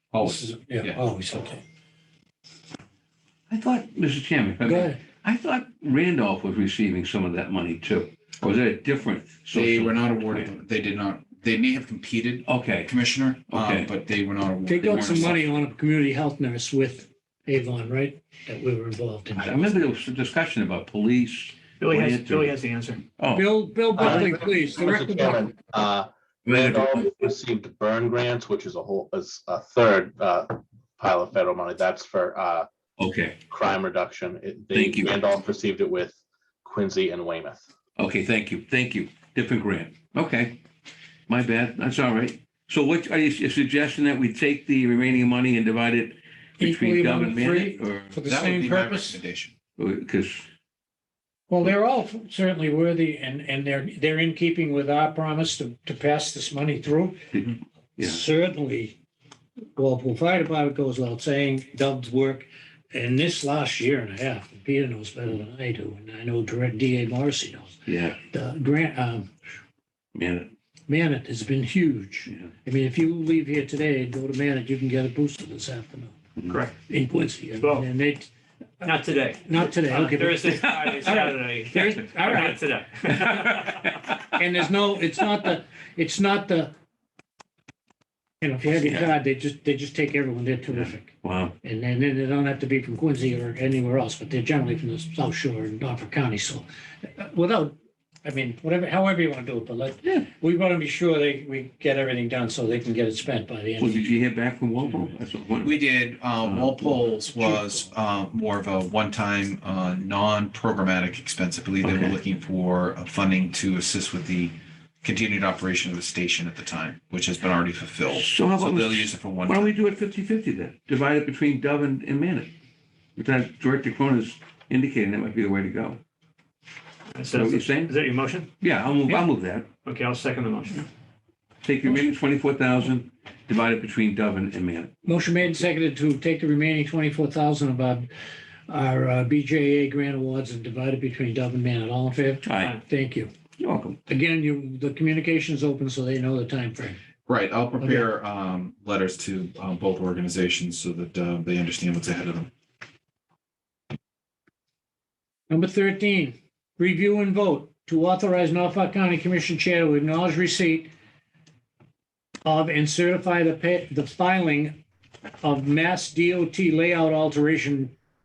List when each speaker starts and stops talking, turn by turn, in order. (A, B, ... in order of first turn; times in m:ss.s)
0:00.1-0:01.0 A
0:00.2-0:01.6 B
0:03.5-0:10.5 C
0:04.6-0:05.0 B
0:09.5-0:15.4 A
0:12.4-0:12.9 C
0:13.5-0:13.9 C
0:14.7-0:19.7 B
0:14.8-0:15.5 C
0:19.4-0:22.6 C
0:21.8-0:23.0 D
0:23.2-0:23.5 C
0:23.3-0:25.5 B
0:24.0-0:32.7 E
0:26.4-0:27.3 C
0:33.0-0:33.4 C
0:33.5-0:37.6 E
0:34.7-0:35.2 C
0:38.0-0:40.6 C
0:41.3-0:48.3 C
0:46.6-0:49.2 B
0:48.3-0:49.5 A
0:49.8-0:50.4 C
0:51.5-0:57.3 B
0:57.3-0:58.2 C
0:58.0-0:59.0 B
0:59.8-1:09.3 B
1:07.9-1:08.2 C
1:10.1-1:10.5 C
1:10.9-1:16.2 B
1:16.5-1:16.8 D
1:16.9-1:18.3 B
1:17.6-1:17.8 D
1:18.8-1:23.6 D
1:19.4-1:22.6 B
1:20.7-1:21.2 C
1:23.2-1:24.2 C
1:24.3-1:26.7 B
1:28.4-1:44.2 B
1:28.8-1:29.1 C
1:30.7-1:31.5 C
1:43.8-1:45.8 C
1:45.6-1:59.7 A
1:46.4-1:47.2 C
1:58.1-2:02.5 C
2:03.2-2:06.0 C
2:07.1-2:08.5 D
2:07.3-2:07.9 C
2:08.6-2:09.7 C
2:09.8-2:10.9 D
2:11.6-2:15.6 C
2:15.0-2:18.1 B
2:18.7-2:23.3 B
2:22.4-2:22.8 C
2:23.6-2:24.0 C
2:24.1-2:27.0 B
2:27.2-2:32.5 A
2:27.8-2:28.1 B
2:35.5-2:40.9 B
2:42.4-2:44.8 B
2:45.4-2:47.9 B